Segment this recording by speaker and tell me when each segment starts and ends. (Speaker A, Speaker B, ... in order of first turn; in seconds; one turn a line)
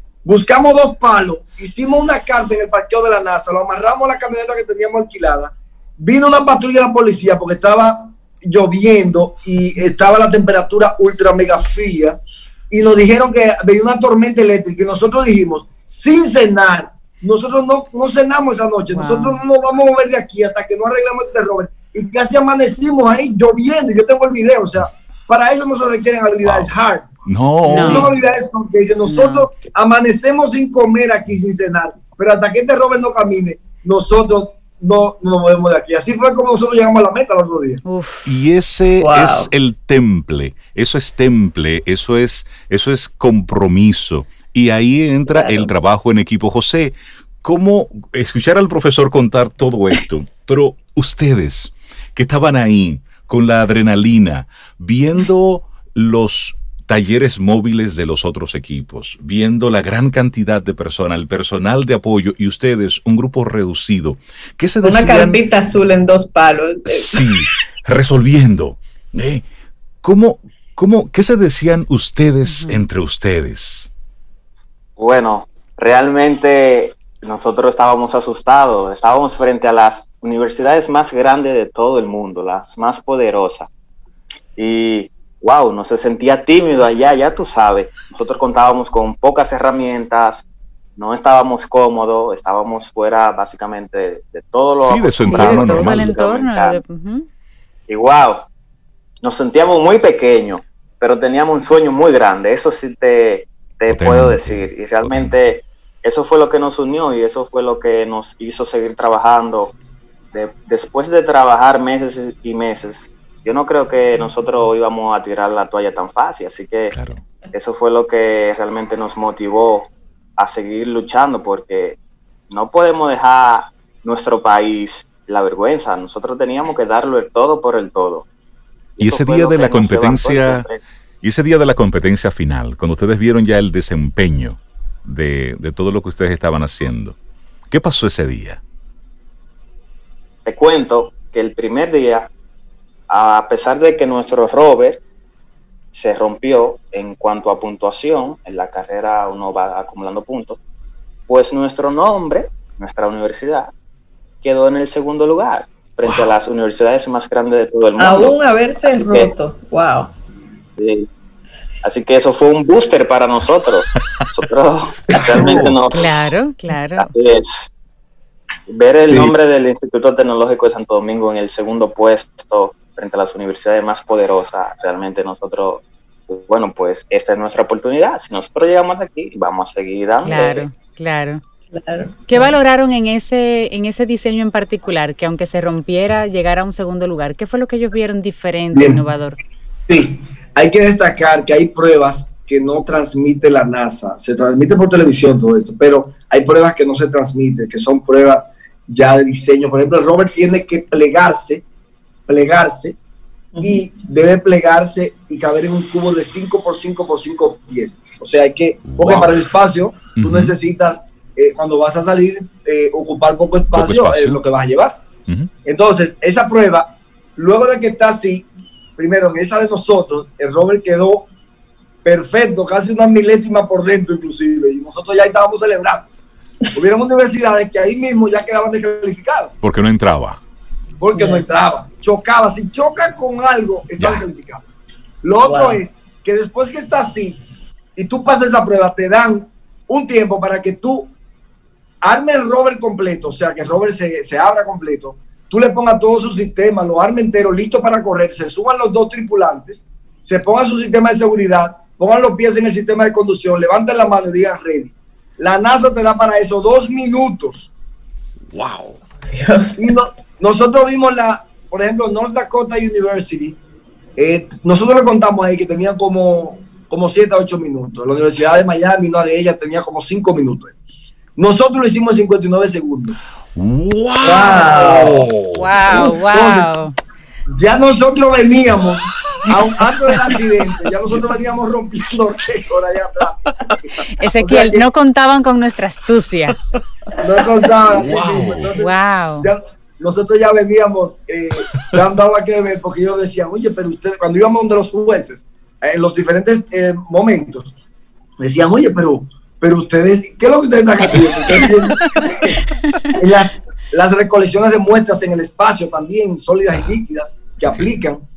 Speaker A: 0.2-27.1
Speaker B: 18.9-19.4
Speaker C: 26.4-28.1
Speaker B: 27.7-28.1
Speaker A: 27.7-37.8
Speaker B: 29.1-29.5
Speaker B: 37.8-38.3
Speaker C: 38.2-65.4
Speaker D: 39.0-39.5
Speaker D: 64.8-67.2
Speaker C: 66.8-69.5
Speaker C: 70.0-73.9
Speaker B: 72.4-72.8
Speaker E: 75.0-83.7
Speaker E: 84.5-90.4
Speaker E: 91.0-96.8
Speaker C: 94.8-96.1
Speaker B: 95.2-97.3
Speaker E: 97.9-98.5
Speaker E: 99.2-109.7
Speaker C: 103.9-105.3
Speaker E: 110.3-116.9
Speaker C: 116.9-117.2
Speaker E: 117.5-122.0
Speaker E: 122.5-128.2
Speaker E: 128.9-130.8
Speaker C: 129.0-130.7
Speaker C: 131.2-137.2
Speaker C: 137.7-138.6
Speaker E: 140.4-142.3
Speaker E: 143.1-145.0
Speaker E: 145.9-150.6
Speaker E: 151.3-153.7
Speaker E: 154.4-159.3
Speaker C: 156.0-156.3
Speaker D: 158.0-160.1
Speaker E: 160.8-161.1
Speaker E: 161.8-166.3
Speaker C: 165.1-165.8
Speaker B: 165.9-167.1
Speaker E: 167.0-167.7
Speaker E: 168.7-180.7
Speaker C: 169.0-169.3
Speaker B: 180.2-181.4
Speaker D: 181.7-182.6
Speaker B: 182.3-189.4
Speaker A: 188.7-189.0
Speaker A: 189.9-201.6
Speaker A: 202.3-202.9
Speaker D: 203.5-203.8
Speaker A: 203.6-215.0
Speaker C: 208.9-209.5
Speaker C: 210.2-210.6
Speaker C: 213.7-214.4
Speaker A: 215.6-221.3
Speaker A: 222.0-226.1
Speaker A: 226.7-229.5
Speaker C: 229.6-230.4
Speaker A: 231.0-234.6
Speaker D: 231.1-231.4
Speaker C: 234.0-234.2
Speaker A: 235.2-237.4
Speaker D: 235.4-235.8
Speaker A: 237.9-241.1
Speaker A: 242.0-257.7
Speaker C: 258.5-259.0
Speaker D: 259.3-259.9
Speaker A: 259.8-263.6
Speaker A: 264.2-270.7
Speaker A: 271.4-273.2
Speaker C: 273.5-275.8
Speaker A: 274.2-275.3
Speaker D: 274.2-275.3
Speaker B: 275.5-276.9
Speaker A: 275.9-276.7
Speaker A: 277.5-284.8
Speaker B: 284.1-286.6
Speaker A: 287.2-297.7
Speaker C: 287.9-288.7
Speaker B: 288.7-289.5
Speaker A: 298.4-302.6
Speaker A: 303.2-308.2